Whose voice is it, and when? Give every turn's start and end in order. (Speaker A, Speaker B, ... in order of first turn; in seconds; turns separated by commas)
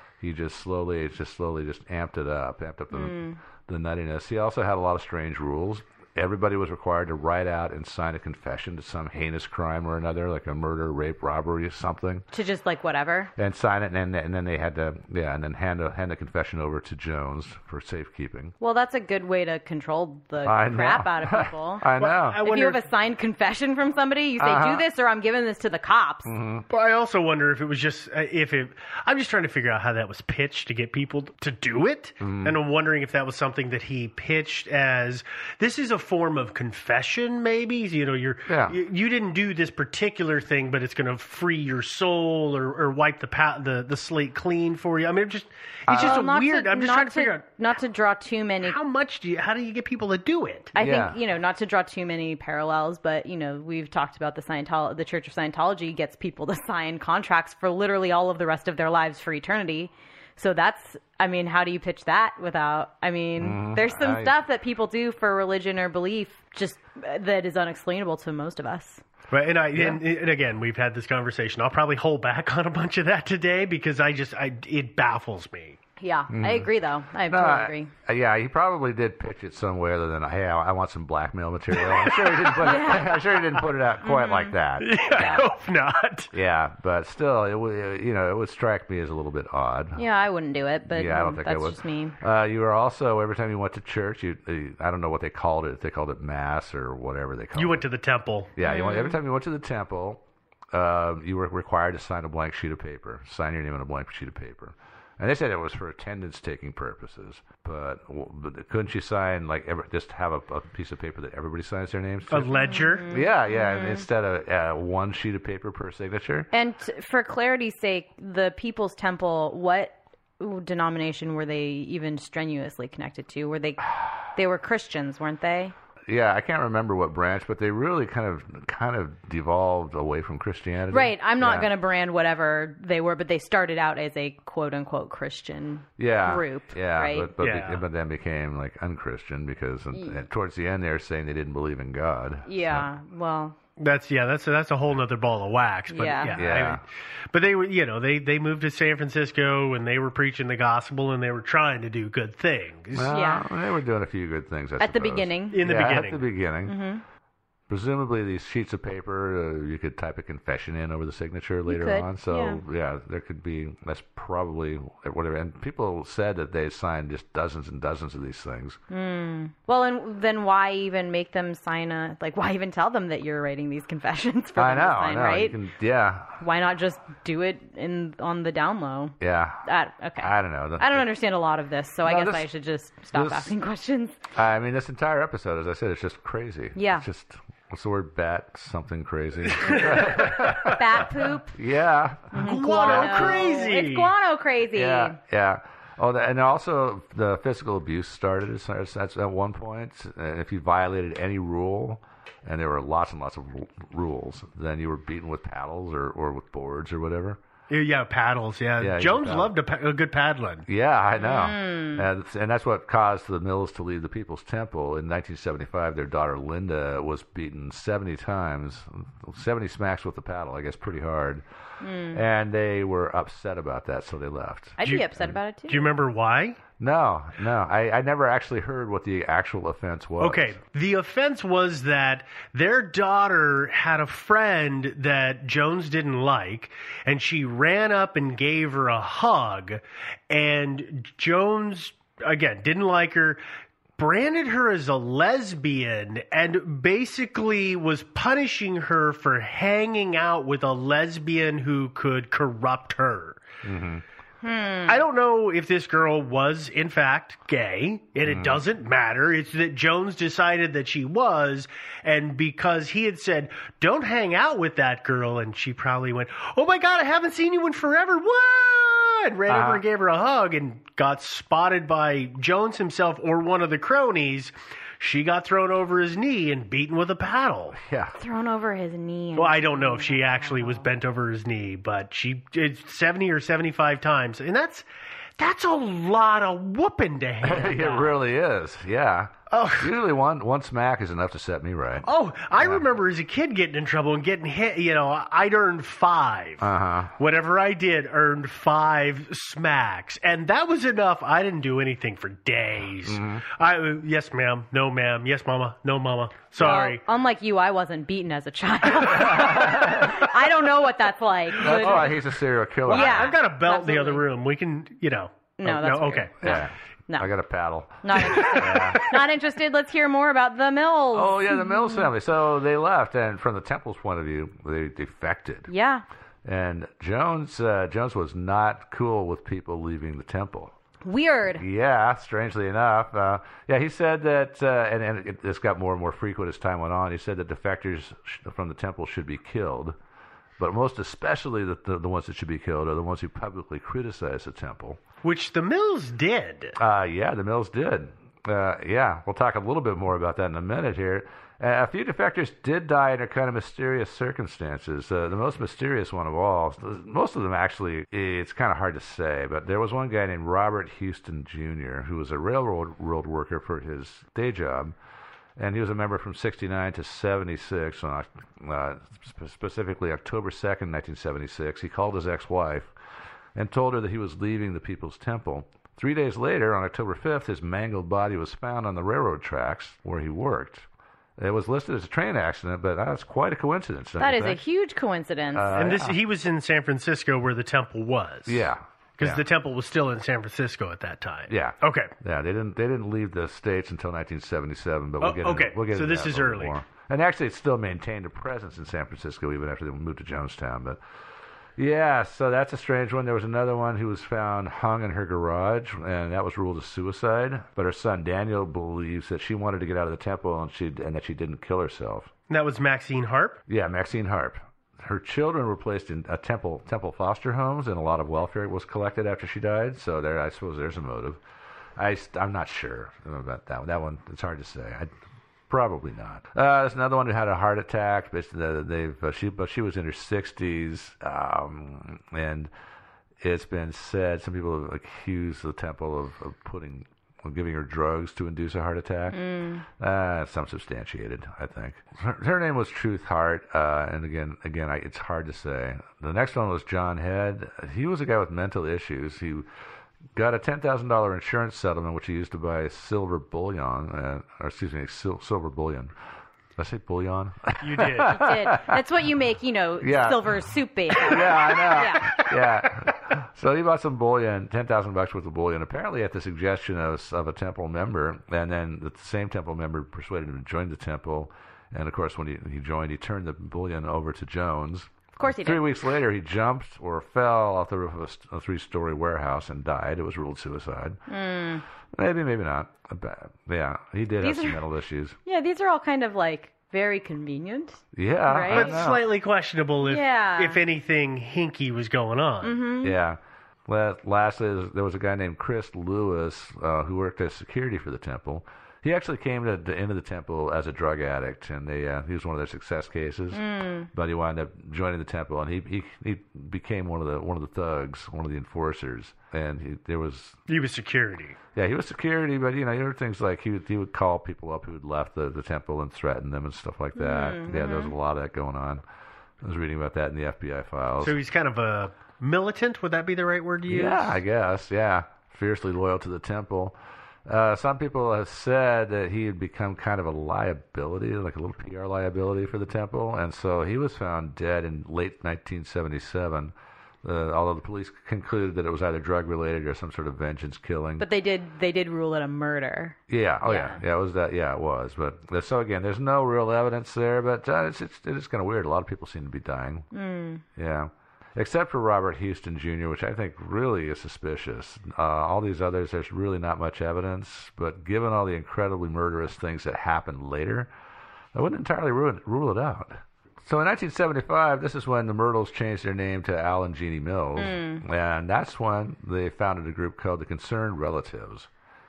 Speaker A: 0.2-12.2, Speaker B: 2.9-3.4, Speaker B: 12.3-13.3, Speaker A: 13.3-18.5, Speaker B: 18.6-26.3, Speaker A: 20.4-22.4, Speaker C: 22.0-22.8, Speaker A: 24.4-24.8, Speaker A: 26.2-26.6, Speaker C: 26.7-47.4, Speaker A: 32.2-32.6, Speaker A: 38.5-38.8, Speaker A: 45.9-46.2, Speaker B: 45.9-48.8, Speaker C: 48.6-50.7, Speaker B: 50.8-69.0, Speaker A: 50.8-51.2, Speaker A: 63.4-64.3, Speaker C: 69.3-75.8, Speaker A: 69.8-70.0, Speaker B: 76.0-77.9, Speaker A: 76.3-76.7, Speaker A: 77.3-85.4, Speaker C: 81.8-82.7, Speaker B: 82.6-83.2, Speaker B: 84.0-84.5, Speaker C: 84.8-86.3, Speaker A: 86.3-90.0, Speaker B: 90.0-92.2, Speaker A: 90.9-97.8, Speaker C: 97.5-98.5, Speaker A: 98.5-116.5, Speaker B: 98.6-99.2, Speaker C: 112.3-113.0, Speaker B: 112.6-114.0, Speaker B: 116.5-125.7, Speaker A: 126.1-131.7, Speaker B: 130.9-137.3, Speaker A: 136.0-142.9, Speaker C: 137.4-137.8, Speaker B: 139.9-140.2, Speaker B: 142.5-143.6, Speaker C: 143.8-153.1, Speaker B: 145.9-146.4, Speaker A: 146.3-146.8, Speaker A: 152.9-156.8, Speaker B: 153.1-153.4, Speaker B: 154.8-155.6, Speaker C: 155.5-156.2, Speaker B: 156.6-157.0, Speaker A: 157.7-168.8, Speaker B: 161.7-162.6, Speaker B: 168.9-175.6, Speaker A: 174.6-176.4, Speaker B: 176.4-184.2, Speaker A: 179.2-179.7, Speaker A: 180.2-181.1, Speaker A: 182.0-182.5, Speaker A: 183.1-183.5, Speaker A: 184.3-193.4, Speaker B: 186.8-187.0, Speaker B: 189.6-191.6, Speaker C: 189.6-190.2, Speaker B: 192.3-195.2, Speaker C: 192.4-194.1, Speaker A: 194.7-207.4, Speaker C: 207.7-210.7, Speaker A: 208.8-209.5, Speaker A: 210.7-221.4, Speaker B: 211.2-212.0, Speaker B: 221.8-222.2, Speaker A: 222.1-225.3, Speaker B: 224.8-225.9, Speaker C: 224.8-225.1, Speaker C: 225.7-226.6, Speaker A: 226.8-230.6, Speaker C: 230.2-243.4, Speaker C: 244.0-253.4, Speaker A: 253.6-254.0, Speaker B: 254.4-255.0, Speaker C: 254.8-277.8, Speaker A: 258.2-258.6, Speaker A: 269.5-269.8, Speaker A: 277.7-278.1, Speaker B: 278.2-280.8, Speaker C: 279.4-284.8, Speaker C: 285.4-288.1, Speaker A: 287.4-292.8, Speaker C: 289.5-290.0, Speaker C: 292.0-307.0, Speaker A: 296.6-297.1, Speaker A: 303.0-303.4, Speaker B: 306.6-312.1, Speaker A: 309.2-310.1, Speaker A: 311.6-313.3, Speaker C: 311.6-312.2, Speaker C: 312.9-316.6, Speaker B: 312.9-314.2, Speaker B: 315.6-317.3, Speaker A: 316.4-319.0, Speaker B: 318.0-322.1, Speaker C: 318.4-319.0, Speaker A: 321.1-325.7, Speaker B: 325.7-326.0, Speaker A: 326.4-330.7, Speaker B: 331.0-331.6, Speaker A: 331.6-340.0, Speaker A: 340.6-345.0, Speaker C: 345.2-346.8, Speaker A: 346.8-364.9, Speaker A: 365.6-372.9, Speaker A: 373.5-380.9, Speaker A: 381.4-384.6, Speaker B: 384.2-385.7, Speaker A: 385.5-386.2, Speaker C: 385.7-392.1, Speaker A: 388.5-389.4, Speaker A: 391.5-401.0, Speaker C: 395.2-396.8, Speaker A: 401.8-412.3, Speaker C: 412.5-413.6, Speaker A: 413.7-421.4, Speaker A: 422.0-425.1, Speaker A: 425.7-432.7, Speaker A: 433.4-439.4, Speaker B: 439.3-439.8, Speaker A: 439.9-449.7, Speaker A: 450.3-456.1, Speaker A: 456.8-459.0, Speaker C: 457.8-458.4, Speaker B: 458.2-462.5, Speaker A: 460.0-481.2, Speaker B: 475.4-475.9, Speaker B: 481.3-481.8, Speaker A: 482.1-485.4, Speaker B: 484.4-484.8, Speaker B: 485.5-489.0, Speaker A: 488.1-489.2, Speaker C: 488.7-492.8, Speaker B: 490.0-490.8, Speaker B: 492.6-493.1, Speaker A: 493.0-510.6, Speaker B: 503.5-504.1, Speaker C: 510.7-511.6, Speaker A: 511.8-519.0, Speaker B: 517.1-518.1, Speaker A: 519.6-521.4, Speaker C: 521.2-524.4, Speaker A: 523.9-541.2, Speaker B: 541.2-544.0, Speaker A: 543.3-550.1, Speaker B: 550.1-550.6, Speaker A: 550.8-560.9, Speaker A: 561.5-571.7, Speaker B: 567.5-568.0